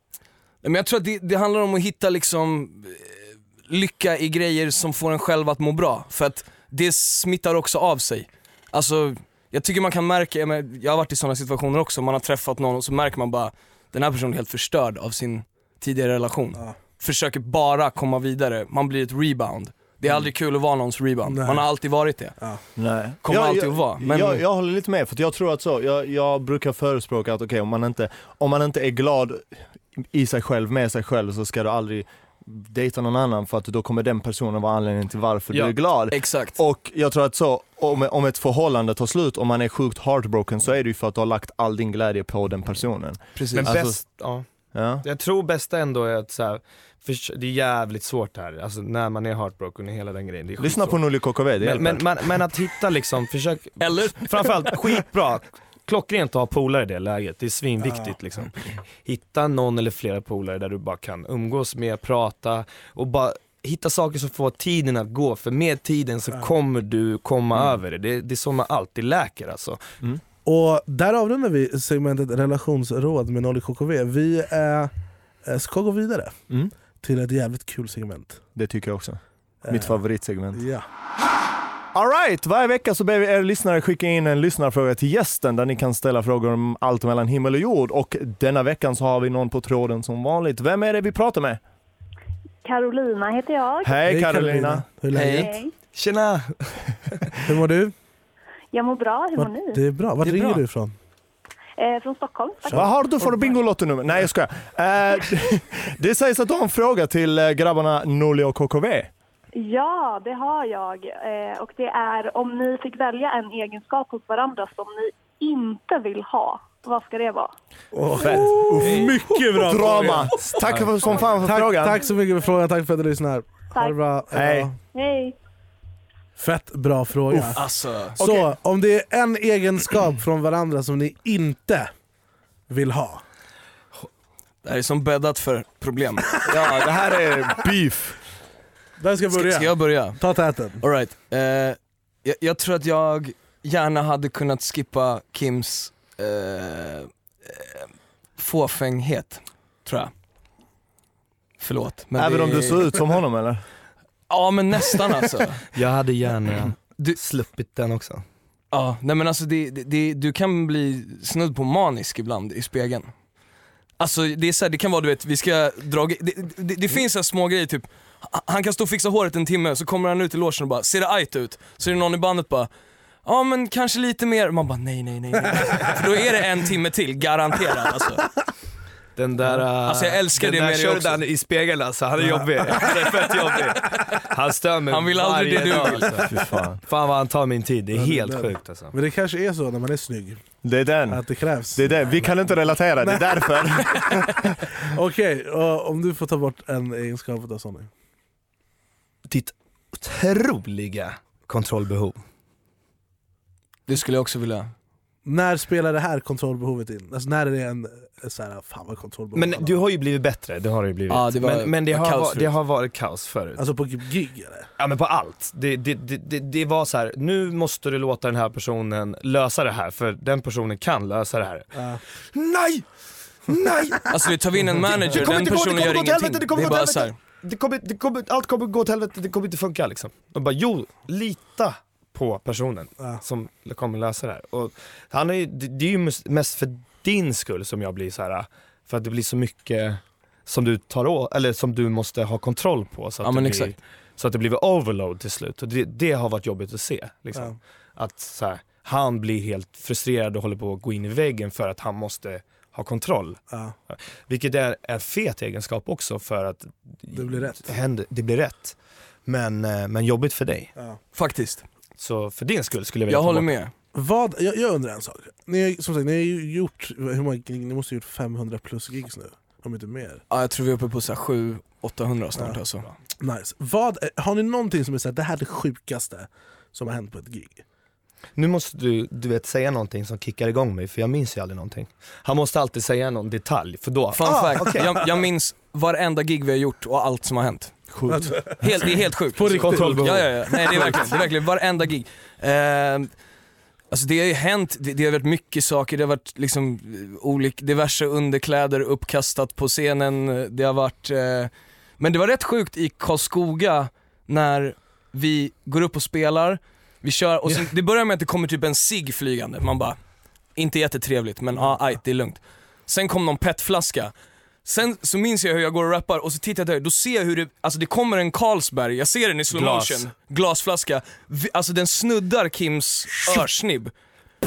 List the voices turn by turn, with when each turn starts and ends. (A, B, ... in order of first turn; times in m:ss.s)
0:00.6-0:22.4 A
0:21.2-0:21.6 B
0:22.8-0:44.0 C
0:23.2-0:24.4 A
0:36.1-0:36.6 A
0:43.4-0:43.7 A
0:43.5-0:44.4 D
0:44.7-0:45.0 C
0:45.0-0:51.0 D
0:50.6-0:52.0 C
0:51.6-1:09.8 D
0:53.8-0:54.1 A
0:57.8-0:58.1 B
1:10.4-1:14.9 B
1:15.4-1:16.4 B
1:17.0-1:18.4 B
1:18.5-1:20.6 C
1:19.6-1:20.0 B
1:20.5-1:20.8 B
1:21.9-1:31.6 C
1:32.6-1:34.0 E
1:33.8-1:34.8 C
1:34.0-1:35.6 B
1:35.1-1:35.5 A
1:35.4-1:35.7 E
1:35.9-1:36.8 D
1:37.4-1:37.9 B
1:38.7-1:39.8 E
1:39.4-1:40.9 B
1:40.2-1:40.6 A
1:41.8-1:42.8 E
1:42.7-1:49.1 C
1:49.6-1:57.5 E
1:57.9-2:00.7 B
1:58.2-2:02.0 C
1:58.2-1:59.1 D
2:01.4-2:04.8 B
2:04.3-2:04.7 C
2:04.9-2:05.3 E
2:06.4-2:07.6 B
2:07.3-2:07.6 C
2:07.5-2:08.2 A
2:08.2-2:08.5 C
2:08.2-2:11.9 B
2:12.7-2:13.2 B
2:14.6-2:16.9 A
2:16.4-2:18.2 C
2:19.0-2:20.8 B
2:19.3-2:20.2 A
2:20.8-2:27.8 A
2:28.4-2:30.1 A
2:31.6-2:33.0 A
2:32.2-2:33.6 C
2:34.3-2:35.6 A
2:35.7-2:38.2 D
2:38.7-2:43.1 A
2:44.0-2:52.7 A
2:53.2-2:58.3 A
2:59.2-3:06.3 D
2:59.8-3:01.2 A
3:02.2-3:02.9 B
3:04.9-3:06.3 A
3:06.3-3:06.8 C
3:06.8-3:08.9 D
3:07.9-3:10.4 B
3:10.6-3:14.8 C
3:11.1-3:12.4 B
3:13.0-3:17.9 B
3:19.2-3:22.2 D
3:23.9-3:24.7 A
3:25.2-3:29.8 B
3:29.3-3:33.7 D
3:31.1-3:32.5 A
3:33.6-3:34.7 B
3:34.8-3:42.8 D
3:41.7-3:42.0 B
3:43.4-3:44.2 D
3:44.1-3:47.1 A
3:44.8-4:20.7 D
4:03.2-4:03.8 A
4:17.1-4:17.7 B
4:21.1-4:21.6 A
4:22.0-4:23.5 D
4:23.1-4:23.7 A
4:23.9-4:30.2 B
4:30.3-4:32.9 A
4:33.2-4:37.6 B
4:38.4-4:45.0 D
4:44.1-4:47.9 A
4:48.0-4:48.4 C
4:48.1-4:48.6 B
4:48.6-4:53.1 A
4:49.3-4:51.2 B
4:49.5-4:51.1 D
4:53.9-5:10.0 A
5:10.6-5:14.1 A
5:14.6-5:23.9 A
5:19.5-5:20.1 D